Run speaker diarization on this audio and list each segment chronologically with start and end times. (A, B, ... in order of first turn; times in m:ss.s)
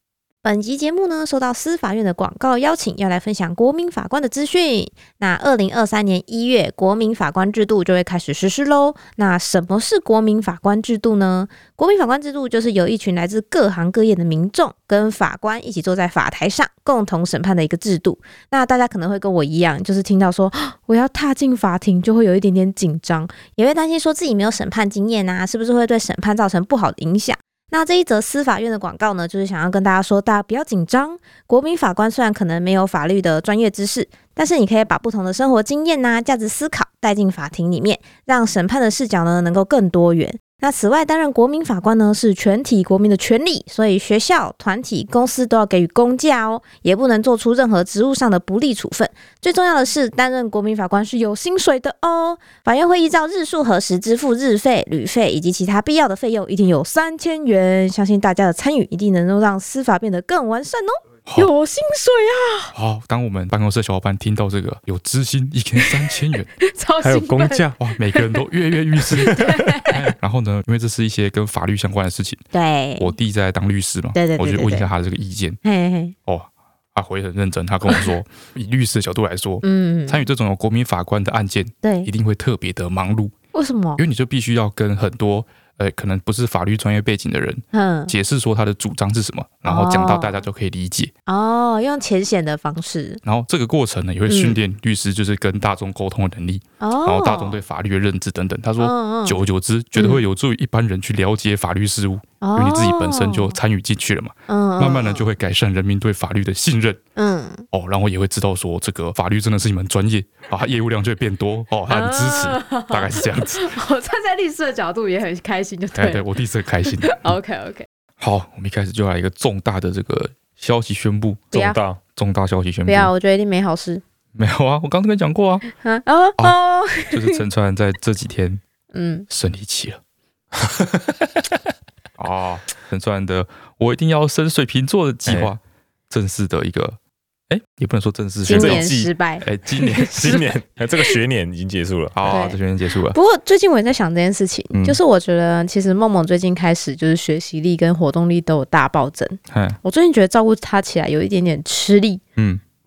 0:00.4-1:02.7 A
1:02.8-1:06.5 B
1:06.6-1:08.4 A
1:07.0-1:07.8 C
1:07.8-1:12.4 B
1:09.1-1:10.0 A
1:09.2-1:09.6 C
1:12.5-1:13.1 A
1:13.0-1:15.6 B
1:14.2-1:14.9 A
1:15.6-1:16.2 A
1:16.3-1:23.3 B
1:19.6-1:20.2 A
1:21.8-1:22.1 A
1:23.5-1:24.0 A
1:24.0-1:31.1 B
1:27.7-1:28.1 A
1:29.6-1:30.4 A
1:31.3-1:33.2 A
1:33.2-1:47.0 B
1:34.3-1:34.6 A
1:36.8-1:37.6 A
1:38.8-1:39.4 A
1:40.0-1:40.2 A
1:42.4-1:43.6 A
1:44.5-1:45.2 A
1:47.2-1:47.6 A
1:47.7-1:53.7 B
1:51.9-1:56.2 A
1:56.0-1:57.4 B
1:57.0-1:57.9 A
1:58.2-2:01.6 B
2:01.5-2:01.8 A
2:01.5-2:02.0 C
2:02.2-2:03.1 B
2:02.9-2:04.0 A
2:04.4-2:05.7 B
2:05.7-2:07.4 A
2:07.1-2:08.6 B
2:08.9-2:09.2 A
2:09.3-2:10.0 B
2:10.6-2:11.3 C
2:12.2-2:17.0 B
2:17.5-2:18.8 B
2:18.4-2:20.4 A
2:18.5-2:19.1 C
2:19.4-2:20.4 B
2:20.0-2:22.5 C
2:22.2-2:23.2 B
2:22.3-2:22.6 A
2:23.1-2:32.2 A
2:24.7-2:25.0 B
2:29.5-2:29.8 B